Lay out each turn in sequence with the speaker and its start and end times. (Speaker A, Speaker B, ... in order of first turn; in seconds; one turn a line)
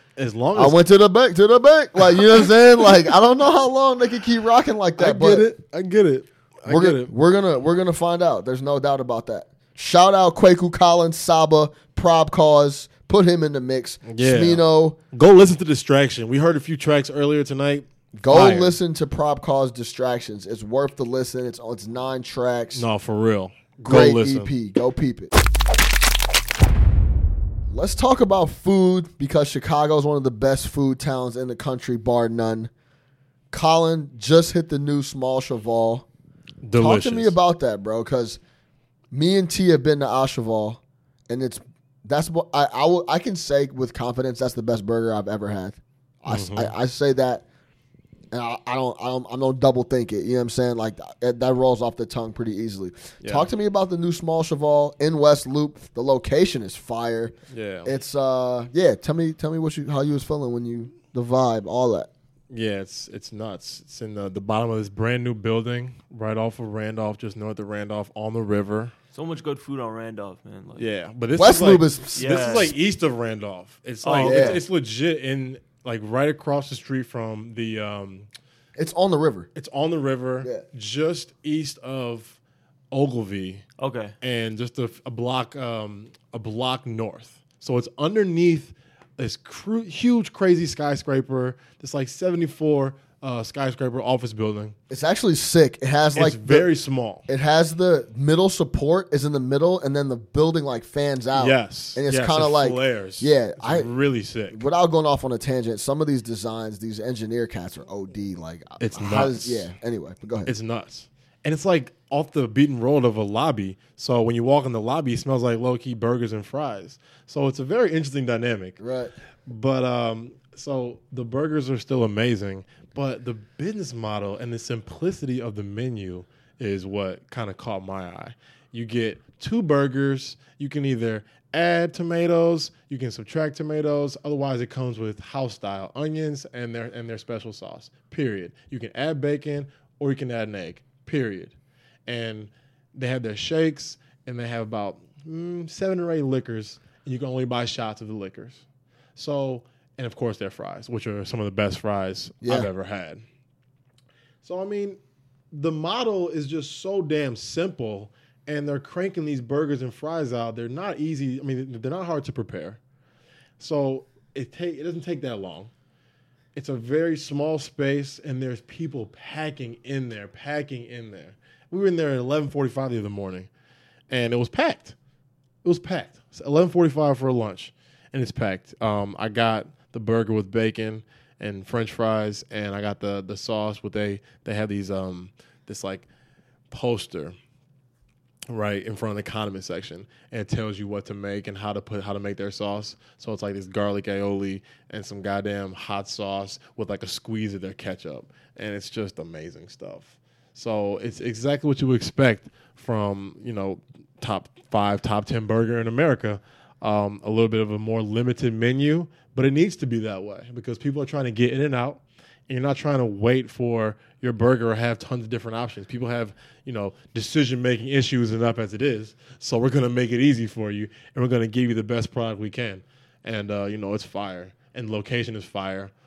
Speaker A: 0.2-0.8
Speaker B: 0.5-5.5
Speaker A: 5.0-7.1
Speaker B: 6.7-15.0
Speaker A: 14.1-18.8
Speaker B: 18.2-22.9
Speaker A: 22.7-24.5
Speaker B: 23.9-25.4
Speaker B: 27.7-32.7
Speaker B: 33.5-36.1
Speaker A: 36.6-37.4
Speaker B: 36.8-38.4
Speaker B: 39.1-47.5
Speaker A: 46.3-46.7
Speaker B: 48.3-57.3
Speaker A: 53.2-53.5
Speaker A: 57.5-57.9
Speaker B: 57.9-62.1
Speaker A: 62.5-68.9
Speaker C: 69.1-70.8
Speaker A: 70.8-78.3
Speaker B: 71.4-72.6
Speaker C: 72.2-72.7
Speaker C: 74.0-74.6
Speaker B: 74.2-74.6
Speaker B: 78.8-79.5
Speaker A: 79.5-82.4
Speaker A: 82.9-83.7
Speaker C: 83.8-84.2
Speaker A: 84.2-94.8
Speaker B: 94.9-96.7
Speaker A: 96.2-97.2
Speaker B: 97.3-103.9
Speaker A: 101.3-104.6
Speaker B: 104.5-110.5
Speaker A: 108.8-109.7
Speaker A: 110.5-118.8
Speaker B: 118.8-119.1
Speaker A: 119.5-141.5
Speaker A: 142.1-148.6
Speaker A: 149.2-153.2
Speaker B: 152.4-152.7
Speaker A: 154.4-155.0
Speaker A: 155.5-162.8
Speaker A: 163.6-165.7
Speaker A: 166.6-173.5
Speaker A: 174.1-174.9
Speaker A: 175.6-186.1
Speaker A: 186.7-187.4
Speaker A: 188.5-225.9